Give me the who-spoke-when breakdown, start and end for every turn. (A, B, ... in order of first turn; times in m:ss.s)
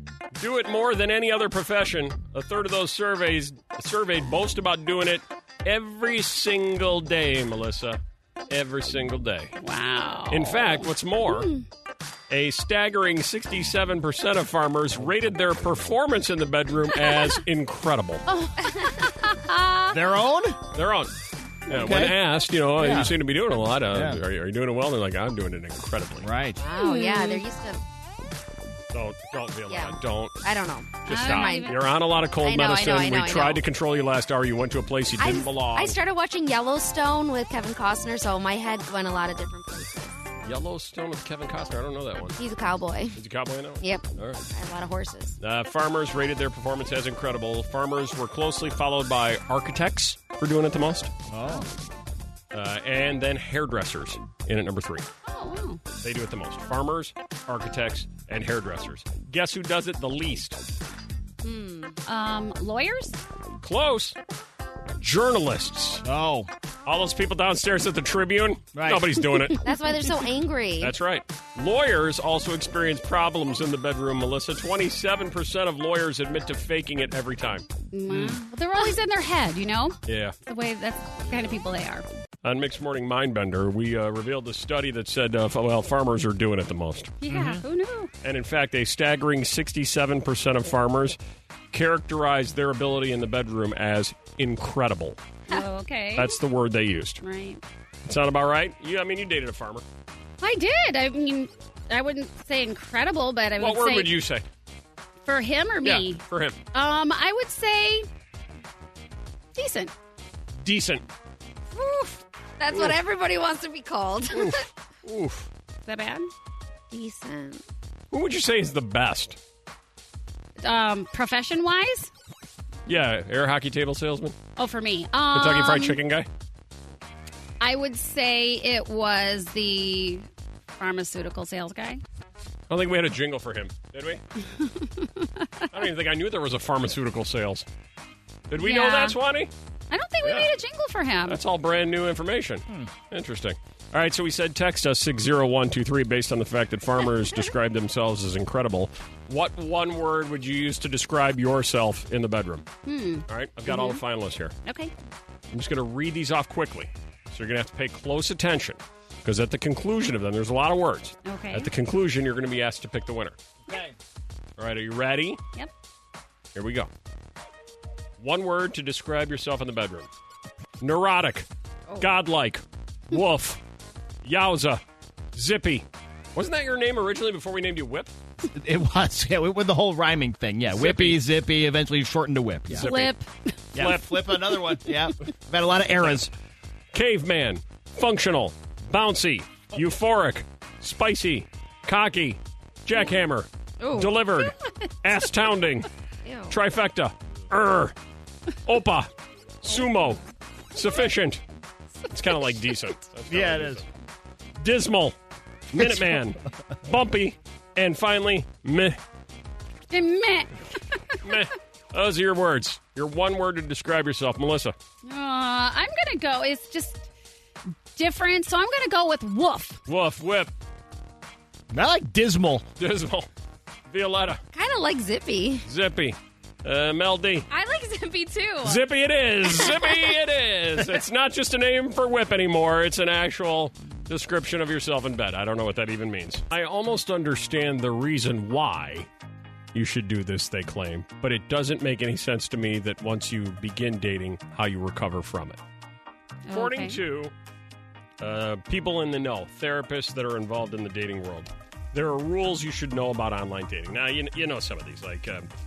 0:00.3-0:09.5 A
0:09.6-0:11.7 B
0:10.3-0:11.5 A
0:12.3-0:18.2 A
0:17.0-0:17.4 B
0:18.3-0:20.0 B
0:19.9-0:20.6 C
0:20.7-0:21.1 A
0:21.7-0:26.3 A
0:21.7-0:22.2 C
0:22.8-0:23.2 C
0:23.9-0:24.2 C
0:26.2-0:26.6 C
0:26.6-0:27.8 D
0:26.7-0:27.4 B
0:28.9-0:30.4 A
0:29.7-0:31.8 D
0:31.1-0:36.0 A
0:31.1-0:31.8 B
0:32.4-0:33.6 D
0:35.2-0:40.2 D
0:40.4-0:42.4 A
0:42.4-0:43.2 D
0:43.2-0:44.4 A
0:43.8-0:45.4 D
0:45.4-0:51.1 A
0:51.3-0:51.7 C
0:52.5-0:55.1 A
0:55.2-0:55.8 B
0:56.0-1:00.6 A
1:01.4-1:02.0 D
1:02.1-1:03.2 B
1:03.6-1:04.2 A
1:05.0-1:06.0 A
1:06.0-1:06.5 C
1:06.9-1:09.6 A
1:08.8-1:09.2 C
1:09.6-1:10.9 D
1:10.8-1:17.6 A
1:17.9-1:22.0 B
1:18.1-1:18.4 C
1:20.1-1:20.4 A
1:21.2-1:21.6 A
1:22.4-1:27.1 A
1:27.2-1:28.1 B
1:27.3-1:27.6 C
1:28.2-1:31.2 A
1:31.7-1:35.2 A
1:35.5-1:36.4 B
1:36.2-1:37.2 A
1:37.2-1:37.6 B
1:38.0-1:39.8 A
1:40.4-1:44.2 B
1:43.6-1:44.4 A
1:45.3-1:46.2 B
1:45.8-1:46.6 A
1:46.7-1:48.1 B
1:49.6-1:49.9 B
1:50.6-1:51.0 A
1:51.7-1:54.6 D
1:52.7-1:53.0 A
1:54.3-1:55.5 A
1:55.9-1:56.3 B
1:56.9-1:57.6 D
1:58.1-1:59.4 A
2:00.6-2:02.1 B
2:02.9-2:04.4 A
2:04.6-2:06.0 B
2:05.3-2:06.3 A
2:07.6-2:10.3 B
2:10.8-2:12.0 B
2:12.7-2:14.2 A
2:14.4-2:15.5 B
2:15.7-2:17.7 A
2:18.5-2:19.5 A
2:18.6-2:19.2 B
2:19.9-2:21.4 B
2:20.2-2:20.5 A
2:21.3-2:32.7 A
2:27.2-2:27.5 B
2:32.8-2:34.0 B
2:33.3-2:34.6 A
2:34.6-2:34.9 B
2:35.5-2:43.4 A
2:41.2-2:41.7 B
2:44.6-2:45.4 A
2:46.6-2:46.9 A
2:48.2-2:50.1 A
2:50.8-2:51.5 A
2:52.0-2:53.6 A
2:54.2-2:54.8 A
2:55.3-2:58.1 A
2:58.4-3:02.9 C
3:00.7-3:01.2 A
3:02.7-3:03.2 A
3:02.7-3:03.5 B
3:03.7-3:06.3 C
3:03.8-3:04.5 A
3:06.0-3:06.3 A
3:06.9-3:15.9 A
3:13.8-3:14.9 B
3:16.2-3:16.6 D
3:16.5-3:18.0 A
3:18.7-3:19.1 A
3:19.6-3:20.2 A
3:20.7-3:21.4 A
3:22.1-3:23.9 A
3:23.3-3:23.8 C
3:24.6-3:25.2 A
3:25.7-3:29.0 A
3:29.9-3:31.2 B
3:31.2-3:34.8 A
3:35.0-3:37.0 B
3:38.0-3:39.8 B
3:39.9-3:40.5 A
3:41.7-3:42.7 C
3:42.8-3:43.3 A
3:43.9-3:44.4 A
3:44.5-3:45.7 D
3:45.7-3:47.5 A
3:47.5-3:48.8 B
3:48.6-3:59.1 A
3:49.5-3:50.1 B
3:59.7-4:05.6 A
4:06.5-4:07.0 B
4:06.5-4:07.3 A
4:08.2-4:15.5 A